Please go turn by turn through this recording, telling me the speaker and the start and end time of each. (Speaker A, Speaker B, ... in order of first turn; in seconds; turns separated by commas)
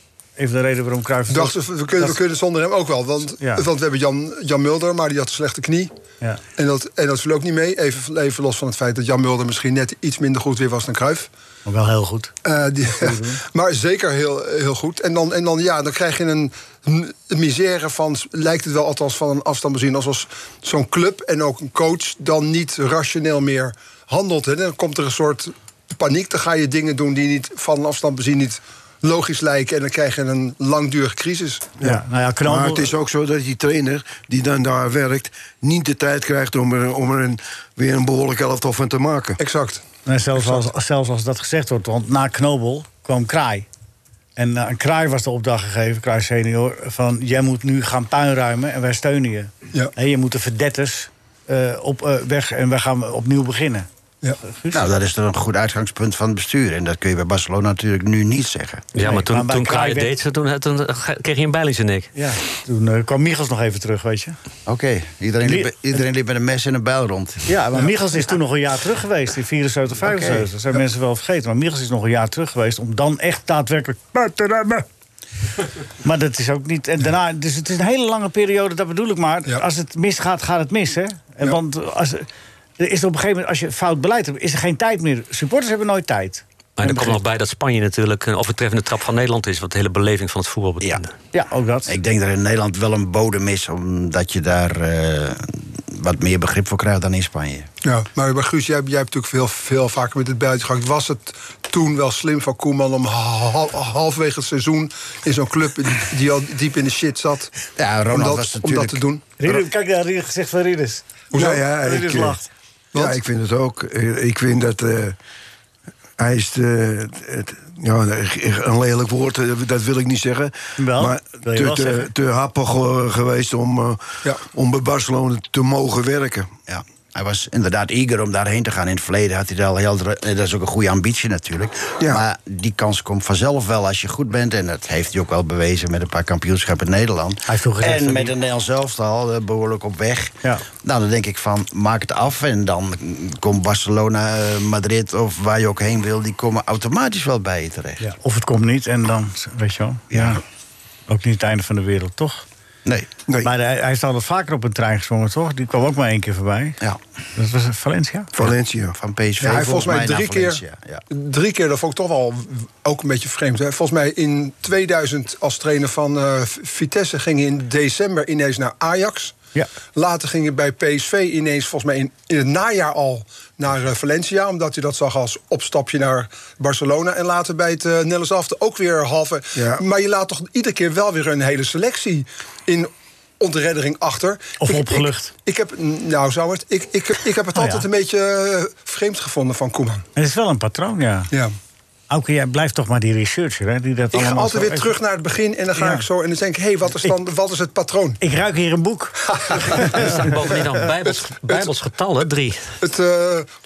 Speaker A: 0.4-2.2, Speaker B: 1.3-5.9, Speaker A: 3.4-3.6, Speaker B: 6.6-11.3, Speaker A: 11.7-12.3, Speaker B: 12.4-31.7, Speaker A: 12.9-13.4, Speaker C: 31.8-39.4, Speaker A: 31.8-32.9, Speaker B: 39.4-39.8, Speaker A: 40.0-43.7, Speaker A: 44.4-53.9, Speaker A: 54.4-54.9, Speaker D: 54.7-58.9, Speaker E: 58.9-62.1, Speaker A: 59.0-60.1, Speaker A: 62.1-64.3, Speaker D: 64.7-67.5, Speaker A: 65.4-66.0, Speaker A: 67.5-74.8, Speaker D: 70.0-70.5, Speaker A: 76.0-82.3, Speaker A: 82.8-87.2, Speaker E: 86.8-91.1, Speaker A: 91.3-91.9, Speaker D: 91.8-97.7, Speaker B: 97.8-107.5, Speaker D: 107.8-109.0, Speaker B: 108.1-109.3, Speaker A: 109.4-111.0, Speaker B: 111.3-111.6, Speaker C: 111.3-112.4, Speaker A: 111.7-112.5, Speaker C: 112.9-115.2, Speaker C: 116.2-126.5, Speaker A: 120.8-122.1, Speaker D: 126.7-148.0, Speaker A: 137.5-138.3, Speaker A: 148.0-150.4, Speaker D: 150.1-150.4, Speaker A: 151.1-152.4, Speaker D: 152.8-153.1, Speaker A: 153.4-156.8, Speaker A: 157.3-158.3, Speaker C: 158.3-158.9, Speaker D: 158.4-161.0, Speaker B: 159.4-160.6, Speaker B: 161.1-169.3, Speaker B: 169.9-190.0, Speaker C: 179.6-179.8, Speaker A: 184.6-185.3, Speaker A: 187.5-187.8, Speaker A: 190.2-191.3, Speaker A: 192.1-194.9, Speaker B: 194.1-198.2, Speaker A: 195.8-196.1, Speaker A: 198.2-200.1, Speaker B: 199.3-200.0, Speaker E: 199.7-202.6, Speaker B: 202.8-203.5